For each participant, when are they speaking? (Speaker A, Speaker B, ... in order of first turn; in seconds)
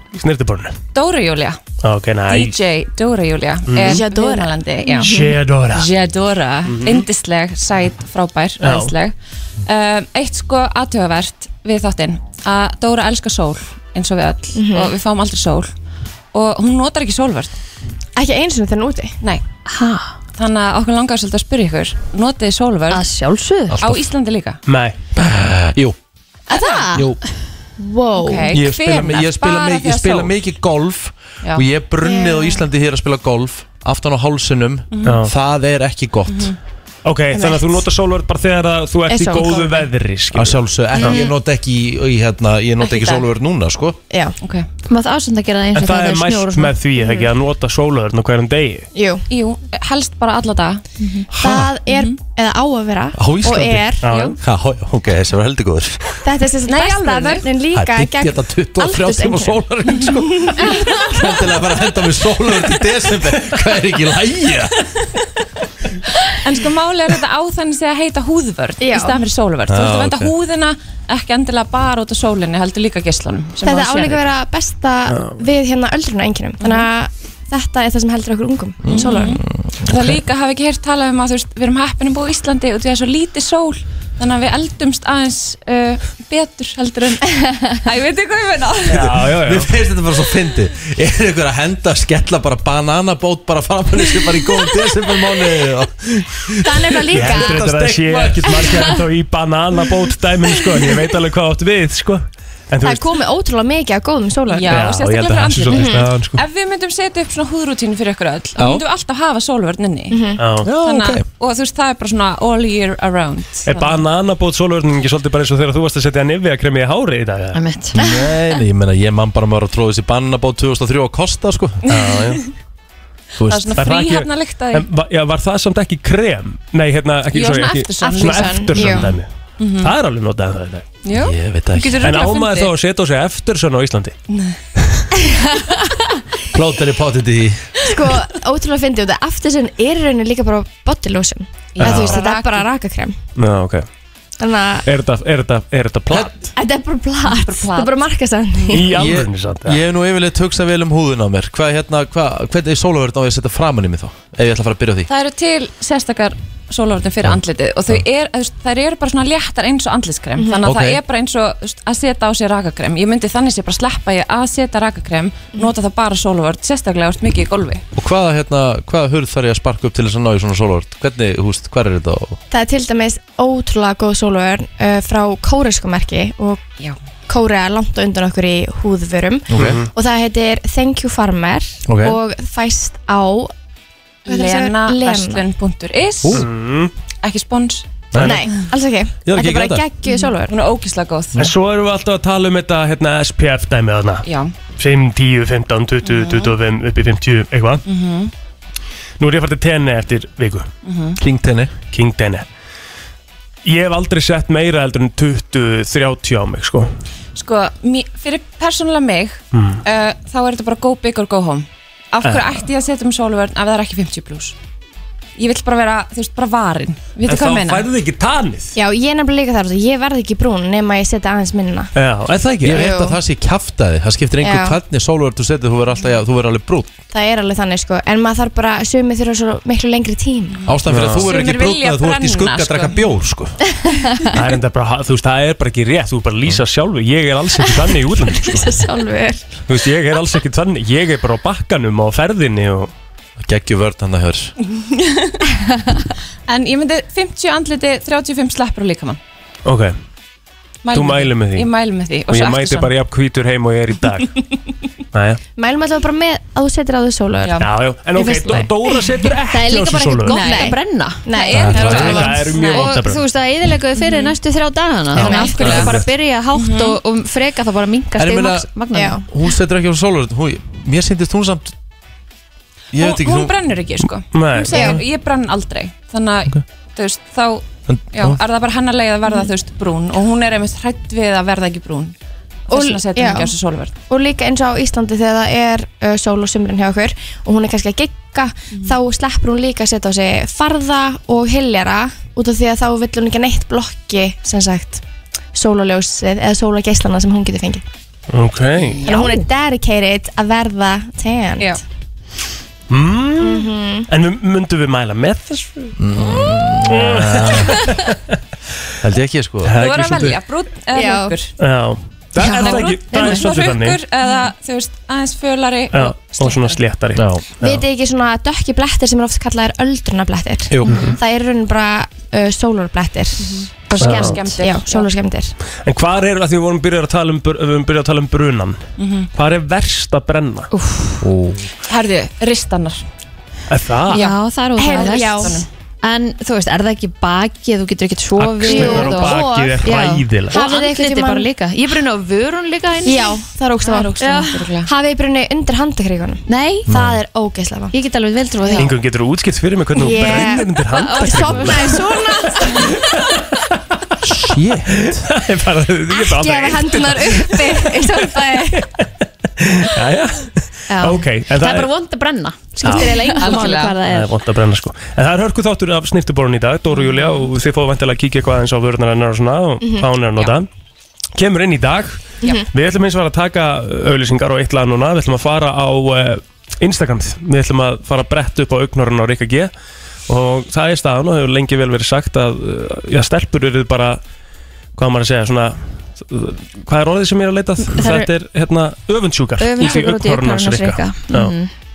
Speaker A: 0.1-0.8, 1.8-2.6, 3.7-4.1, 5.0-5.9, 6.7-7.1, 8.6-8.9, 24.7-24.9, 35.0-35.3, 37.0-40.6, 45.7-48.9, 54.0-54.4, 75.1-75.4, 88.9-89.7, 97.1-103.1, 104.7-106.4, 110.4-110.7, 113.7-117.6, 121.9-122.4, 123.8-130.9, 132.0-134.2, 141.8-142.2, 143.4-143.9, 144.9-146.5, 148.7-149.8, 179.6-179.9, 186.3-186.9, 188.2-188.4, 191.4-197.8, 199.2-200.7, 201.9-202.4, 203.6-206.9, 209.5-209.8, 212.2-212.6, 217.3-218.7, 221.9-222.9, 230.9-231.3, 234.3-238.7, 239.7-242.9, 249.6-249.9, 250.9-251.7, 252.3-254.4, 255.1-255.4, 257.6-260.5, 261.7-263.2, 265.2-266.0, 274.3-274.9, 298.3-299.1, 302.9-305.9, 306.8-308.2, 309.6-310.4, 311.6-314.0, 315.9-317.8, 320.9-321.2, 324.0-324.4, 325.8-328.8, 329.4-330.7, 333.7-334.3, 338.4-340.6, 348.8-352.2, 355.3-359.0, 359.6-361.9, 362.8-363.1, 364.1-370.7, 371.4-379.7, 380.3-384.2, 384.9-391.5
Speaker B: 0.9-1.6, 2.3-9.1, 9.7-15.7, 16.3-17.6, 20.4-23.0, 23.8-24.6, 26.5-26.9, 28.2-30.4, 34.9-35.2, 36.3-36.6, 44.4-44.7, 49.3-50.8, 51.9-52.2, 54.1-54.4, 56.7-57.5, 66.4-74.3, 76.6-76.9, 78.9-89.1, 104.5-114.0, 121.9-122.5, 123.5-124.9, 127.3-129.0, 129.6-129.9, 131.0-132.7, 134.3-134.6, 141.7-142.7, 147.3-147.9, 155.1-167.8, 184.3-186.4, 187.2-188.1, 190.1-191.4, 194.2-194.5, 196.0-196.6, 197.8-198.3, 200.8-201.2, 207.3-214.6, 215.4-217.9, 231.1-233.0, 244.7-245.4, 246.5-249.2, 250.8-252.9, 260.4-260.6, 261.3-262.9, 264.0-264.4, 265.2-265.9, 266.5-267.0, 272.9-282.1, 282.7-283.9, 299.0-299.4, 309.7-311.6, 312.6-316.8, 323.4-325.1, 329.0-329.3, 331.9-333.0, 334.1-335.7, 343.8-344.9, 362.9-364.0, 366.9-367.3
Speaker C: 3.8-5.3, 14.5-14.9, 18.2-19.2, 26.5-27.1, 27.8-28.6, 32.0-32.6, 37.3-37.9, 39.1-39.9, 42.8-43.2, 44.1-44.4, 47.0-47.3, 48.9-49.2, 51.3-54.1, 56.2-61.4, 68.8-69.2, 73.6-79.4, 96.6-97.6, 102.8-104.9, 105.7-106.0, 110.1-110.4, 118.0-118.2, 128.0-129.1, 137.9-143.2, 144.4-144.8, 146.6-148.9, 160.4-160.7, 172.5-176.7, 177.3-183.5, 184.3-185.4, 188.2-190.6, 218.8-221.9, 222.7-223.2, 224.4-224.8, 227.1-230.6, 237.6-239.5, 255.6-259.1, 260.3-262.7, 265.2-265.9, 268.9-269.2, 274.7-275.0, 282.7-295.0, 295.5-297.8, 299.0-301.8, 303.4-304.1, 310.9-311.4, 317.6-323.8, 324.5-325.5, 334.8-335.6, 338.6-339.9, 340.5-341.5, 343.1-347.9, 348.6-348.9, 349.9-352.9, 356.1-358.9, 363.2-363.6, 369.8-370.1
Speaker D: 19.7-20.1, 22.9-23.8, 41.0-41.3, 44.9-46.7, 117.5-118.0, 259.5-261.2, 262.0-269.2, 312.4-313.4, 323.9-324.6, 330.7-331.2, 334.1-343.4, 344.2-344.7, 346.5-347.0, 347.9-348.9, 350.1-352.2, 360.9-364.3, 387.9-388.3, 389.6-391.7
Speaker E: 23.7-24.0, 25.2-25.9, 28.5-36.5, 40.3-44.0, 51.3-51.7, 53.2-56.1, 57.7-64.8, 69.7-70.3, 78.8-80.2, 88.9-98.8, 108.6-108.8, 110.6-111.2, 118.0-121.8, 123.4-123.8, 131.1-132.1, 136.5-137.9, 148.9-155.1, 160.6-161.0, 167.9-172.4, 179.5-179.8, 181.9-182.2, 188.1-188.4, 189.2-189.9, 201.2-201.7, 222.6-226.9, 230.7-233.6, 243.4-244.5, 261.5-262.3, 268.2-268.7, 269.3-271.7, 272.9-273.6, 274.7-275.0, 277.9-278.4, 306.0-307.8, 309.0-309.8, 317.2-317.4, 320.7-321.0, 346.9-347.2, 354.2-355.3